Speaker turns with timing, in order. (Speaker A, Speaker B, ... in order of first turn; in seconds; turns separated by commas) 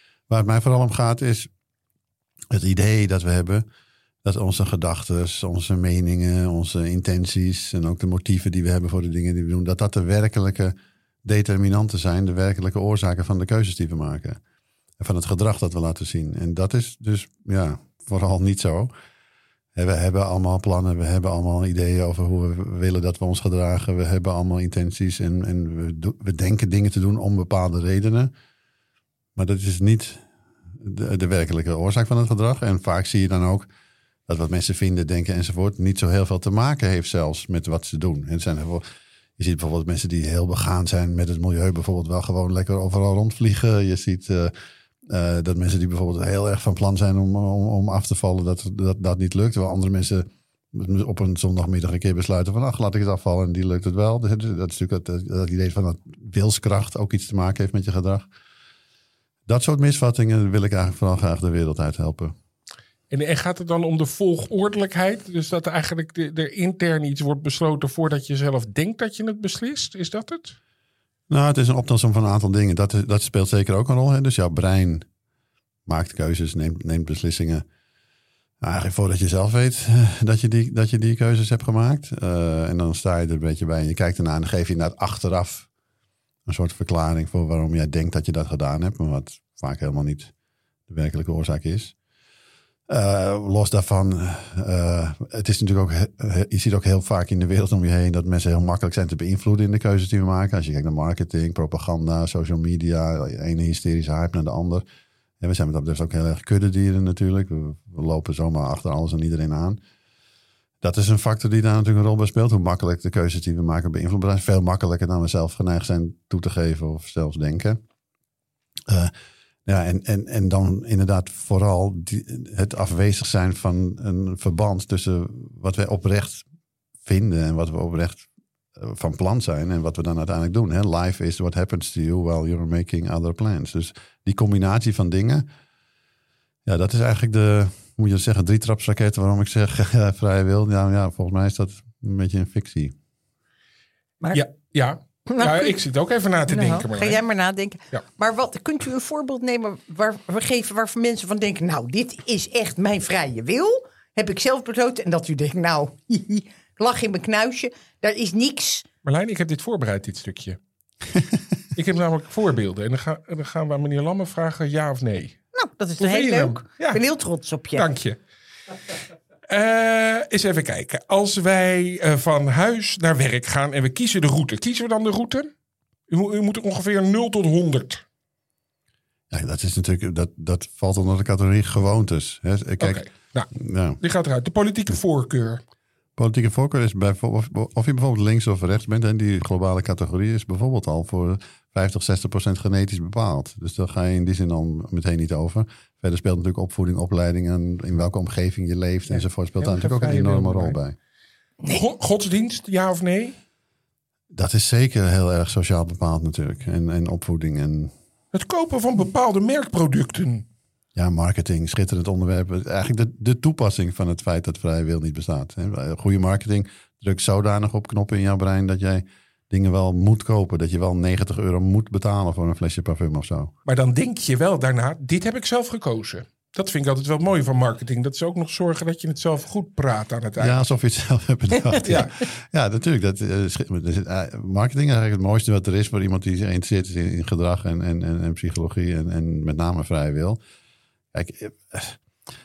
Speaker A: 0.3-1.5, Speaker A: 2.5-3.6, Speaker A: 4.2-14.4, Speaker A: 15.0-18.9, Speaker A: 19.8-28.3, Speaker A: 29.4-33.7, Speaker A: 34.3-38.8, Speaker A: 39.4-44.5, Speaker A: 45.1-58.3, Speaker A: 59.5-62.3, Speaker B: 63.1-70.6, Speaker A: 71.3-75.0, Speaker A: 75.9-77.7, Speaker A: 78.6-85.7, Speaker A: 86.5-90.3, Speaker A: 90.9-91.9, Speaker A: 92.9-104.8, Speaker A: 105.4-109.8, Speaker A: 110.8-117.8, Speaker A: 119.7-126.5, Speaker A: 127.0-135.5, Speaker A: 136.7-142.9, Speaker B: 144.3-147.2, Speaker C: 145.3-145.8, Speaker C: 146.5-158.8, Speaker B: 159.0-160.6, Speaker B: 161.7-165.4, Speaker C: 165.5-167.8, Speaker B: 166.0-167.0, Speaker B: 167.7-168.2, Speaker B: 169.5-175.5, Speaker B: 176.1-178.0, Speaker A: 179.3-184.0, Speaker B: 182.8-185.6, Speaker A: 186.2-201.0, Speaker B: 199.1-200.8, Speaker B: 201.7-203.3, Speaker A: 204.3-207.9, Speaker B: 208.3-210.5, Speaker A: 210.9-223.5, Speaker B: 223.7-230.6, Speaker A: 230.4-240.4, Speaker B: 231.8-232.2, Speaker A: 241.1-242.0